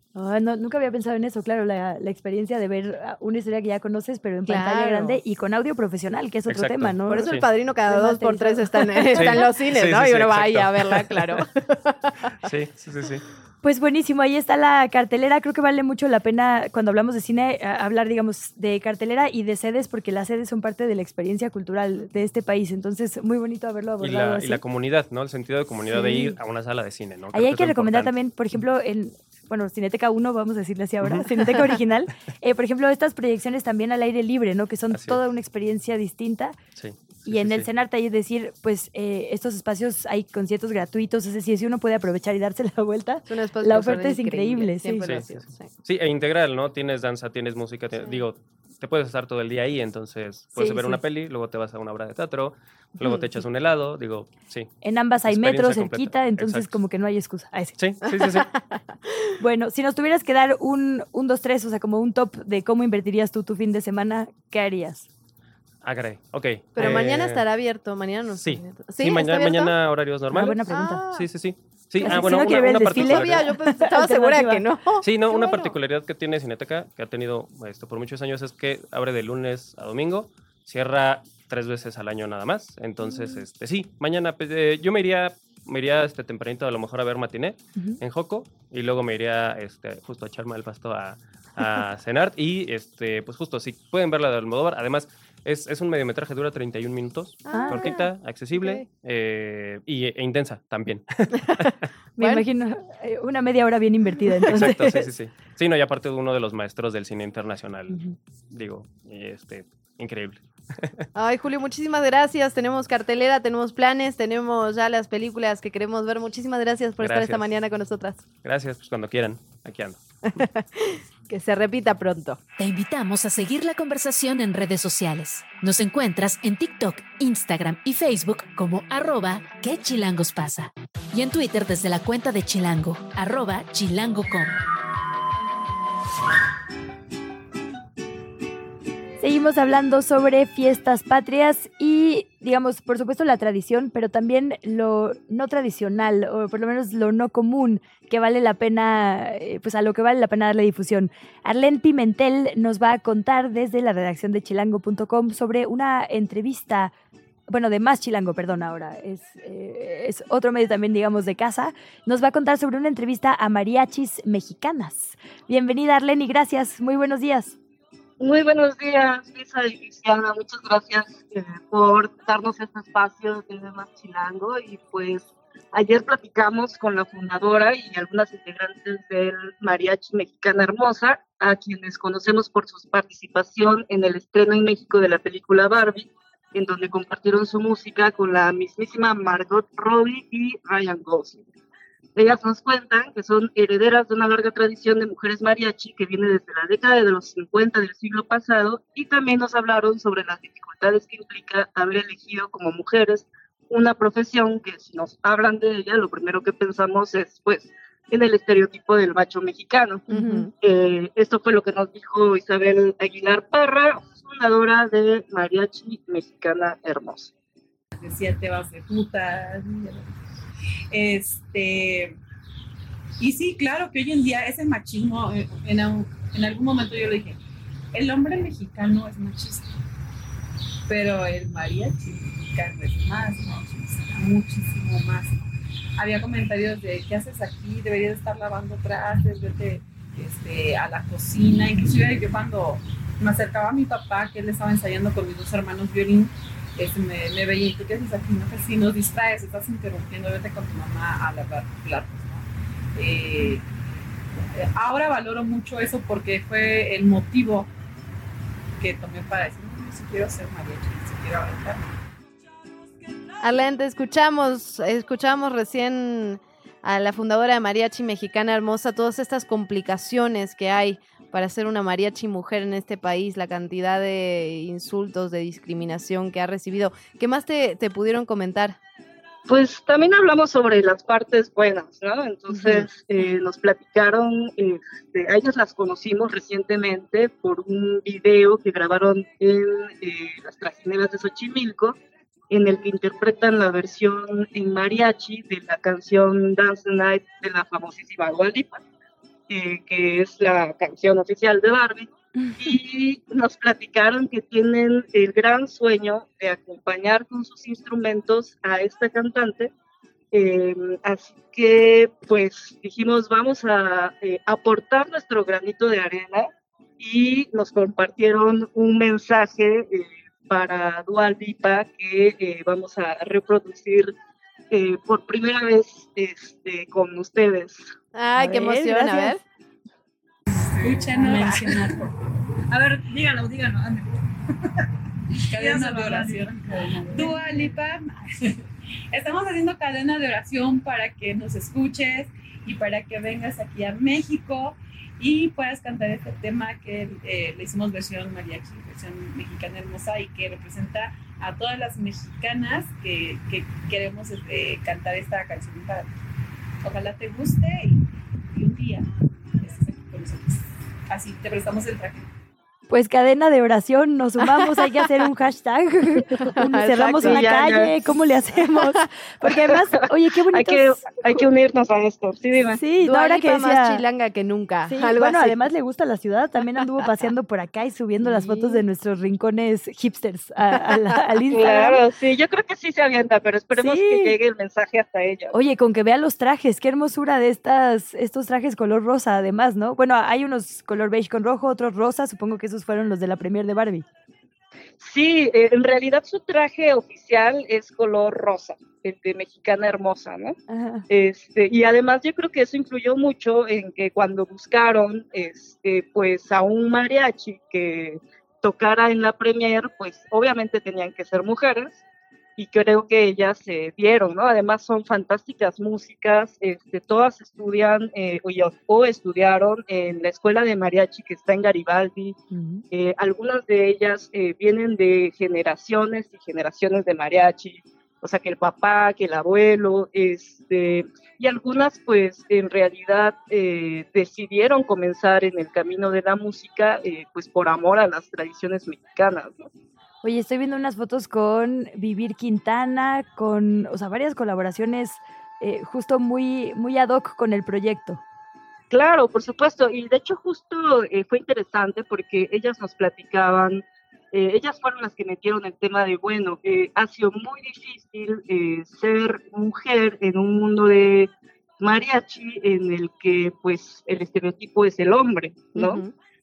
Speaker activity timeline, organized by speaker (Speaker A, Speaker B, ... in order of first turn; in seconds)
Speaker A: 0.1-7.3, 7.9-9.4, 13.6-24.6, 25.9-26.4, 27.3-36.5, 37.2-45.0, 50.5-51.0, 54.8-57.8, 59.4-65.1, 70.3-71.0, 72.0-74.6, 97.5-97.9, 102.2-105.1, 107.9-108.1, 139.2-156.9, 157.5-167.6, 210.1-210.4, 302.4-302.7, 328.4-329.4, 362.9-371.0, 372.8-374.0, 374.9-382.0, 383.8-384.4, 385.5-394.0, 400.7-401.0, 422.5-422.8, 440.2-448.2
Speaker B: 4.5-5.2, 7.1-12.3, 43.3-45.7, 53.0-53.3, 58.1-59.2, 66.7-69.7, 70.7-71.3, 72.0-75.7, 97.5-98.9, 101.5-102.4, 111.2-118.2, 120.3-122.4, 210.1-210.5, 263.4-278.8, 282.5-282.9, 328.1-329.4, 366.5-367.4, 373.0-375.6, 378.2-378.8, 465.7-466.1
Speaker C: 6.5-7.5, 9.1-11.4, 12.4-13.2, 24.0-28.1, 31.0-31.3, 34.9-35.2, 36.8-37.7, 45.0-54.7, 55.2-56.8, 57.8-58.5, 65.8-67.5, 68.3-73.5, 75.0-101.8, 104.5-111.0, 117.0-117.4, 118.4-120.0
Speaker D: 122.6-134.6
Speaker E: 168.2-191.4, 192.2-217.3, 279.5-292.0, 292.5-298.8, 299.5-309.7, 310.3-324.1, 324.7-327.9, 335.9-336.2, 367.2-368.0, 370.5-372.8, 381.5-385.6, 395.0-400.6, 401.1-412.0, 412.6-422.4, 422.9-439.6, 448.9-466.0
Speaker F: 217.9-220.1, 220.9-222.2, 223.2-227.4, 227.9-229.8, 230.9-235.4, 236.0-253.6, 254.5-257.7, 258.8-261.9, 330.6-334.1, 335.3-356.1, 356.8-362.2